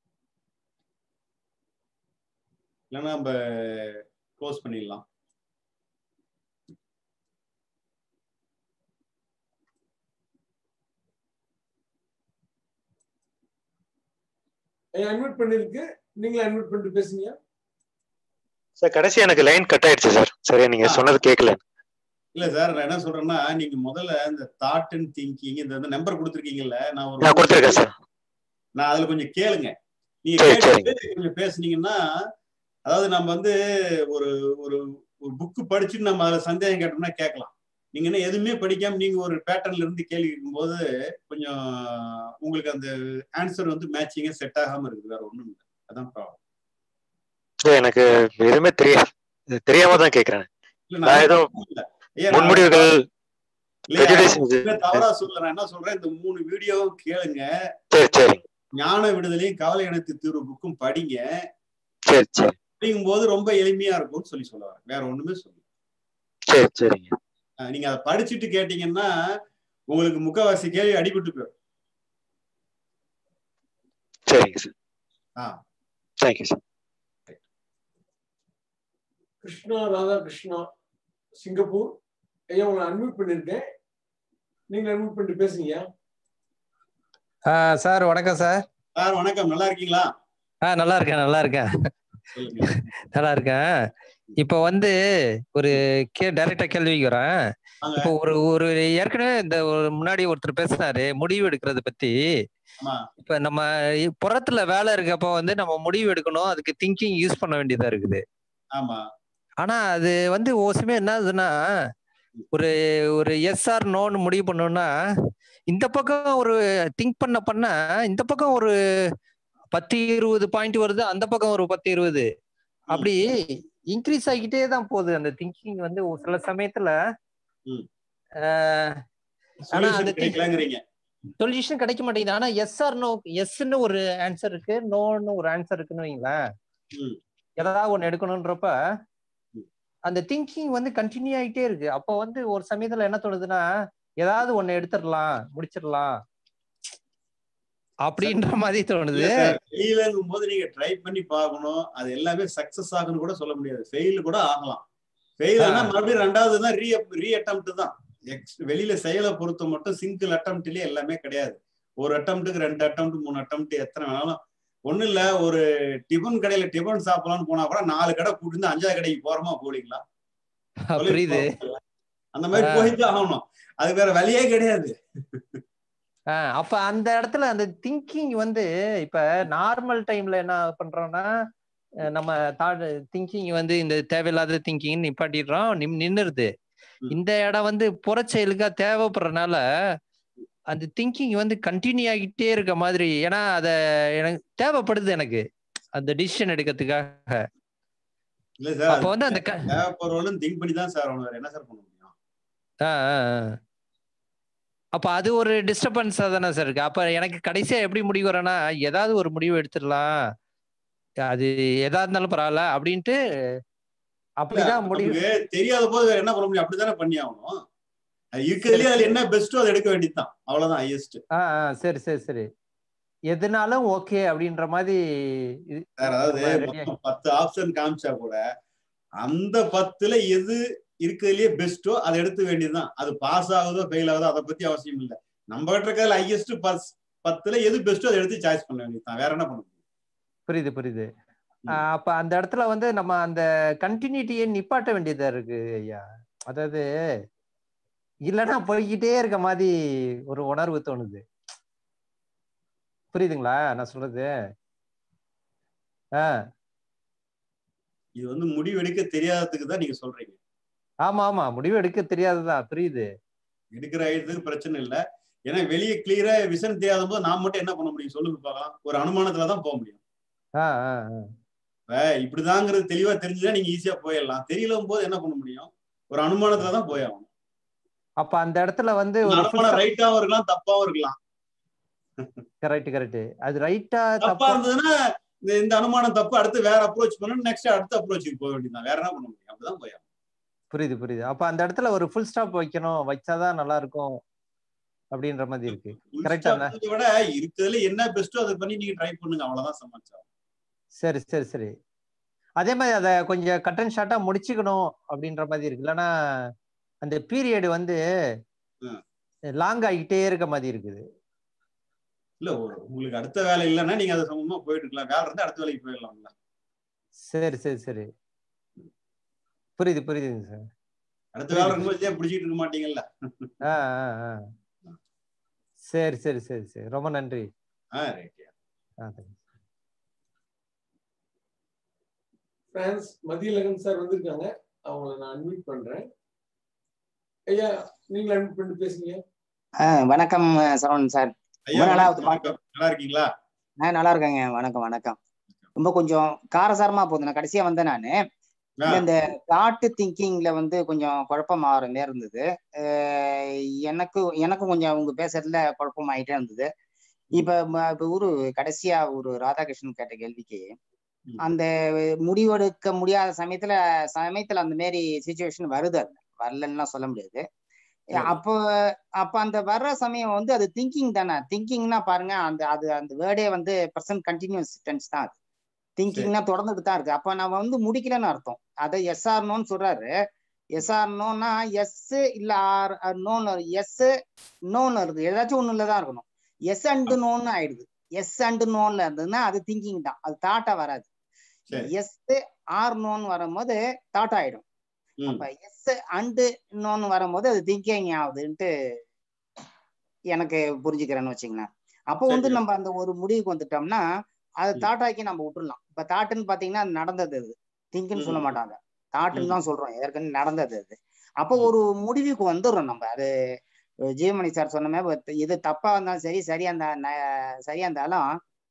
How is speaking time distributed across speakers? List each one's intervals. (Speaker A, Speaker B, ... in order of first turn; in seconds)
Speaker A: 2.9-5.0, 20.8-21.1, 22.4-27.8, 28.8-32.0, 32.9-33.5, 34.1-46.4, 50.9-52.9, 53.9-57.5, 58.8-61.2, 62.8-65.6, 67.7-69.1, 69.9-71.5, 89.0-90.1, 92.3-92.9, 97.8-98.1, 102.8-103.1, 108.8-109.0, 129.7-130.8, 149.1-154.8, 155.4-170.0, 171.0-171.8, 172.4-175.6, 198.6-202.1, 214.5-217.5, 218.4-221.2, 226.0-228.4, 229.2-239.7, 258.2-260.4, 263.7-270.0, 271.9-277.3, 279.3-281.2, 284.2-284.9, 285.5-290.0, 295.7-300.2, 312.4-316.3, 321.4-323.6, 328.0-328.5, 341.7-343.3, 402.3-402.6, 408.2-408.5, 409.3-409.6
Speaker B: 15.0-17.4, 79.4-80.7, 81.4-81.9, 82.5-83.6, 84.7-85.8, 332.8-336.0, 337.5-339.2
Speaker C: 18.8-21.6, 27.2-27.9, 30.4-30.9, 47.7-50.5, 51.0-51.5, 52.3-53.0, 53.9-55.0, 57.9-58.4, 62.1-62.5, 66.5-67.2, 74.3-74.7, 76.2-76.6
Speaker D: 87.5-88.6, 90.7-91.7, 92.7-93.6, 94.4-94.9, 95.5-97.3, 98.0-102.2, 103.2-103.7, 104.2-108.2, 109.6-111.5, 112.5-114.9, 115.7-118.7, 119.7-122.3, 122.9-123.4, 123.9-126.9, 128.4-129.0, 129.7-130.4, 131.4-136.4, 137.6-138.7, 140.1-143.6, 144.2-146.2, 148.1-149.6, 155.6-156.0, 170.9-171.5, 172.6-173.0, 176.3-181.3, 182.0-186.5, 187.1-189.6, 190.7-197.4, 198.9-199.6, 202.8-203.6, 205.0-210.1, 211.3-213.2, 214.4-215.2, 218.7-219.2, 221.4-222.5, 223.3-225.0, 225.7-226.9, 240.5-241.1, 241.7-246.8, 248.3-249.7, 250.3-251.2, 253.1-254.3, 261.1-263.1, 270.6-271.3, 278.2-279.8, 282.6-284.6, 290.7-294.2, 295.1-296.7, 301.0-301.7, 302.6-306.1, 307.1-308.0, 309.6-311.0, 317.3-318.1, 319.8-320.6, 321.5-321.9, 323.7-324.4, 325.9-327.5, 329.0-329.4
Speaker E: 339.8-342.5, 343.8-345.2, 345.8-348.1, 348.9-353.3, 353.9-356.7, 357.4-360.7, 362.3-367.4, 368.2-368.6, 369.2-375.4, 376.0-380.1, 380.8-384.1, 384.7-391.1, 391.8-394.6, 395.3-398.7, 400.3-404.1, 404.6-413.3, 414.2-418.3